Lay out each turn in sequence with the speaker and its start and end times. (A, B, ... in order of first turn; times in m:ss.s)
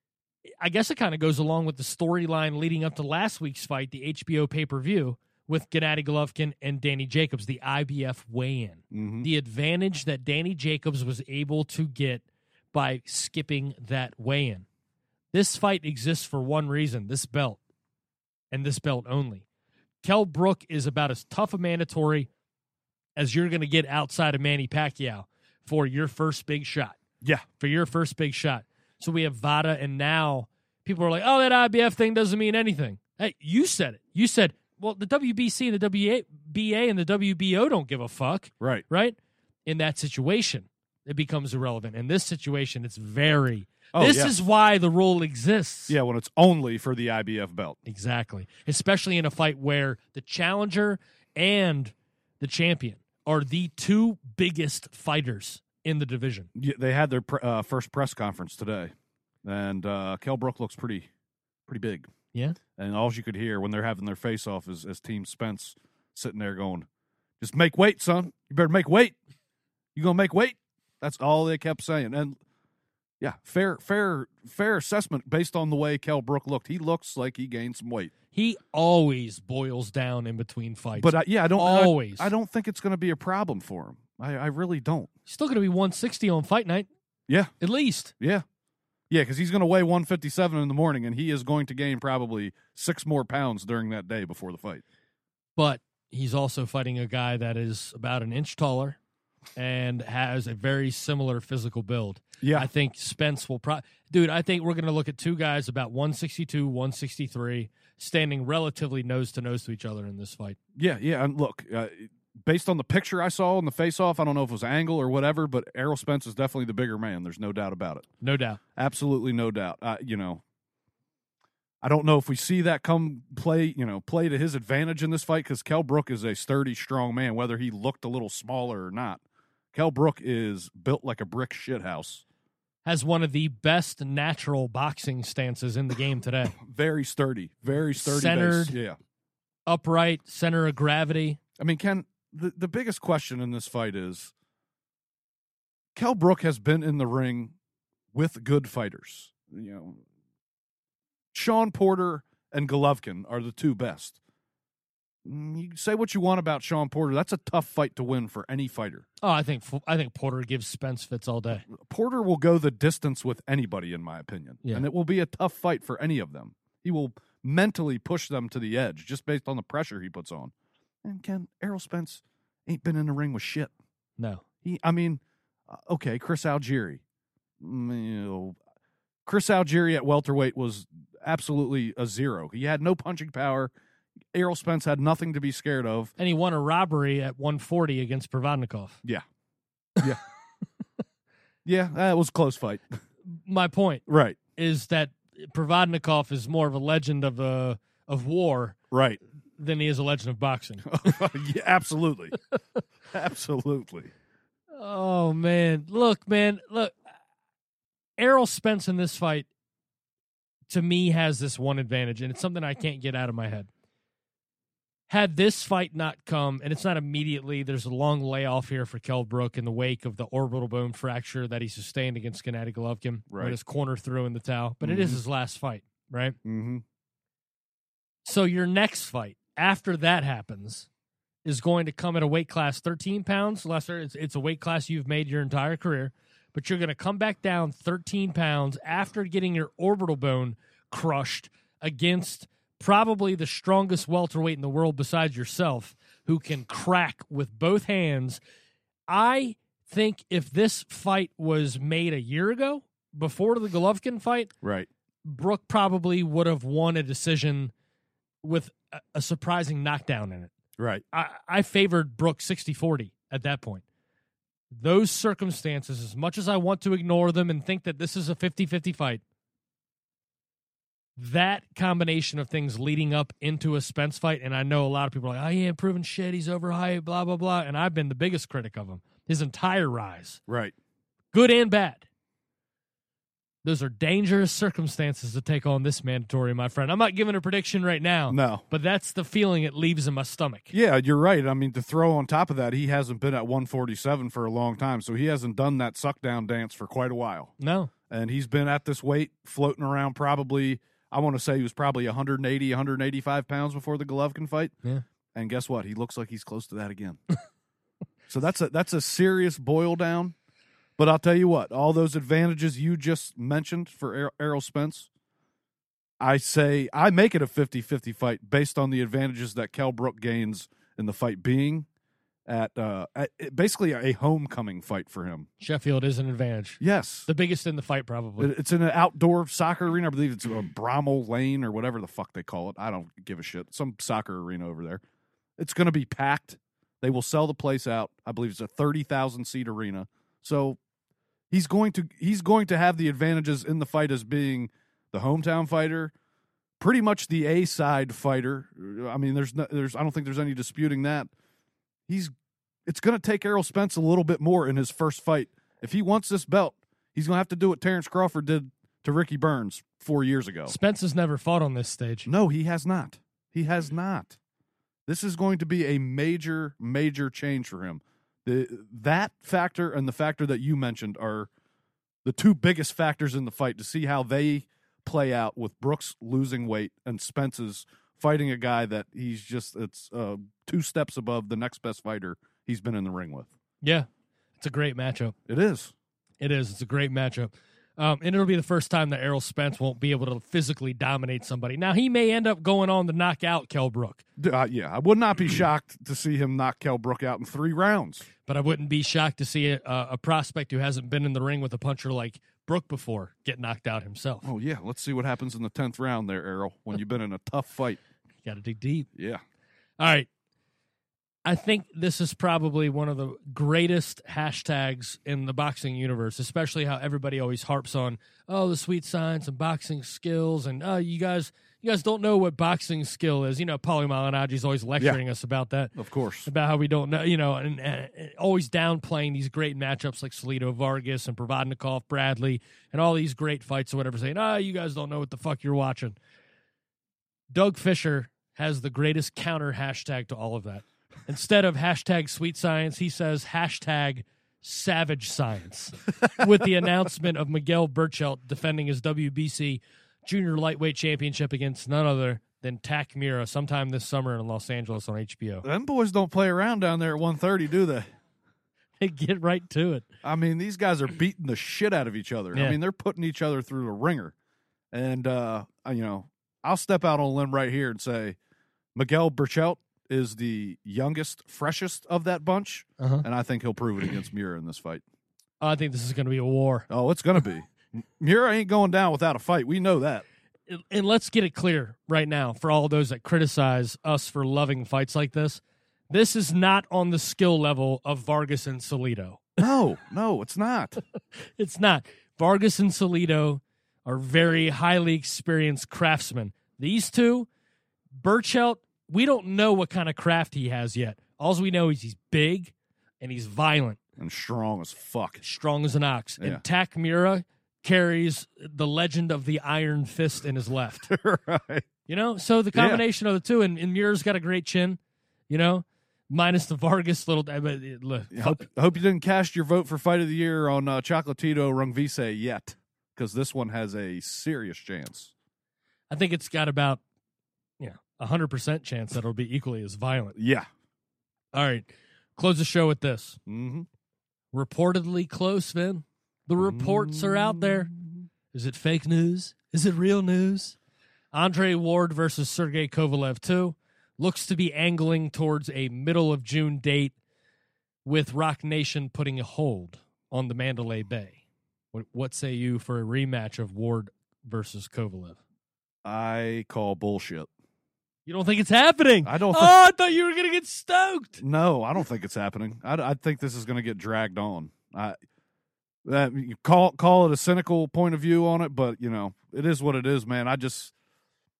0:00.6-0:14.6 A
0:08.9-0:09.3 B
0:15.3-0:17.6 A
0:18.5-0:19.4 A
0:20.0-0:22.3 A
0:23.2-0:27.0 A
0:27.6-0:46.0 A
0:43.9-0:44.3 B
0:45.9-0:47.8 B
0:47.8-0:56.5 A
0:56.5-0:58.9 B
0:59.4-1:01.1 B
1:01.7-1:02.1 B
1:02.8-1:06.9 B
1:07.4-1:09.2 B
1:09.9-1:12.4 B
1:13.2-1:18.1 B
1:18.3-1:22.3 A
1:21.0-1:25.1 B
1:25.3-1:26.9 A
1:27.3-1:27.5 B
1:27.6-1:28.1 A
1:28.2-1:28.4 B
1:29.1-1:34.8 B
1:35.6-1:39.0 A
1:39.6-1:50.6 A
1:42.4-1:42.7 B
1:50.7-1:58.1 B
1:58.2-1:58.6 A
1:58.8-2:00.4 B
2:01.8-2:09.2 B
2:09.7-2:12.2 B
2:12.8-2:16.6 A
2:16.6-2:19.0 B
2:18.0-2:18.8 A
2:19.7-2:21.4 A
2:21.6-2:24.3 B
2:25.9-2:27.6 B
2:28.1-2:30.0 B
2:31.3-2:34.2 B
2:35.2-2:39.0 B
2:39.2-2:41.6 A
2:41.6-2:50.5 B
2:51.0-2:53.7 B
2:54.2-2:54.4 A
2:54.6-2:57.0 B
2:57.6-2:58.6 B
2:59.2-3:03.7 B
3:04.3-3:06.1 B
3:06.2-3:09.0 A
3:11.6-3:13.0 B
3:13.2-3:18.8 A
3:14.1-3:14.4 B
3:18.9-3:19.2 B
3:19.6-3:21.2 A
3:20.9-3:22.4 B
3:23.1-3:24.1 B
3:24.8-3:27.0 A
3:28.2-3:29.5 A
3:30.7-3:33.7 A
3:35.1-3:46.4 A
3:43.3-3:43.6 B
3:44.8-3:45.2 B
3:46.4-3:46.8 B
3:48.2-3:50.9 A
3:51.4-4:08.4 A
4:09.1-4:14.5 A
4:14.6-4:14.9 B
4:15.2-4:17.7 A
4:18.4-4:20.5 A
4:20.8-4:21.0 B
4:21.1-4:23.8 A
4:24.7-4:29.2 A
4:31.2-4:40.4 A
4:40.5-4:40.7 B
4:41.3-4:42.0 A
4:43.6-4:50.7 A
4:48.3-4:48.6 B
4:50.7-4:57.5 B
4:57.6-4:57.9 A
4:58.1-5:04.7 B
5:05.3-5:07.2 B
5:08.3-5:10.3 B
5:11.0-5:15.1 B
5:16.2-5:21.9 B
5:22.5-5:25.5 B
5:25.6-5:28.5 A
5:26.8-5:27.3 B
5:28.4-5:35.0 B
5:35.6-5:40.8 B
5:41.5-5:46.1 B
5:46.8-5:51.3 B
5:52.1-5:52.3 B
5:52.8-6:00.7 B
6:00.6-6:02.3 A
6:02.2-6:04.4 B
6:05.0-6:11.5 B
6:12.2-6:23.5 B
6:23.8-6:24.1 A
6:24.6-6:25.3 A
6:25.5-6:25.9 B
6:26.4-6:34.2 A
6:34.4-6:38.3 B
6:38.4-6:44.5 A
6:44.4-6:48.0 B
6:48.4-6:49.1 A
6:49.1-6:49.4 B
6:50.0-6:50.3 A
6:51.4-7:05.9 A
7:06.0-7:06.5 B
7:06.4-7:16.2 A
7:17.5-7:35.6 A
7:35.6-7:38.0 B
7:39.0-7:40.0 A
7:40.2-7:44.3 B
7:42.5-7:42.8 A
7:44.9-7:48.4 B
7:48.9-7:55.0 B
7:53.0-7:53.2 A
7:55.6-7:56.9 A
7:56.9-8:00.2 B
8:00.7-8:09.6 A
8:09.6-8:11.0 B
8:11.6-8:17.5 A
8:18.2-8:24.0 A
8:24.2-8:25.4 B
8:25.4-8:31.1 A
8:31.1-8:31.9 B
8:32.1-8:38.7 A
8:32.7-8:33.0 B
8:38.3-8:45.3 B
8:46.1-8:47.0 A
8:47.8-8:50.4 A
8:50.4-8:50.7 B
8:51.5-8:53.4 A
8:53.4-8:53.9 B
8:54.5-8:57.9 A
8:56.6-8:58.2 B
8:58.5-9:00.8 A
9:01.3-9:07.1 A
9:08.0-9:11.4 A
9:11.9-9:15.4 A
9:16.0-9:17.5 B
9:18.2-9:21.4 A
9:19.2-9:19.7 B
9:21.4-9:25.2 B
9:26.0-9:30.9 B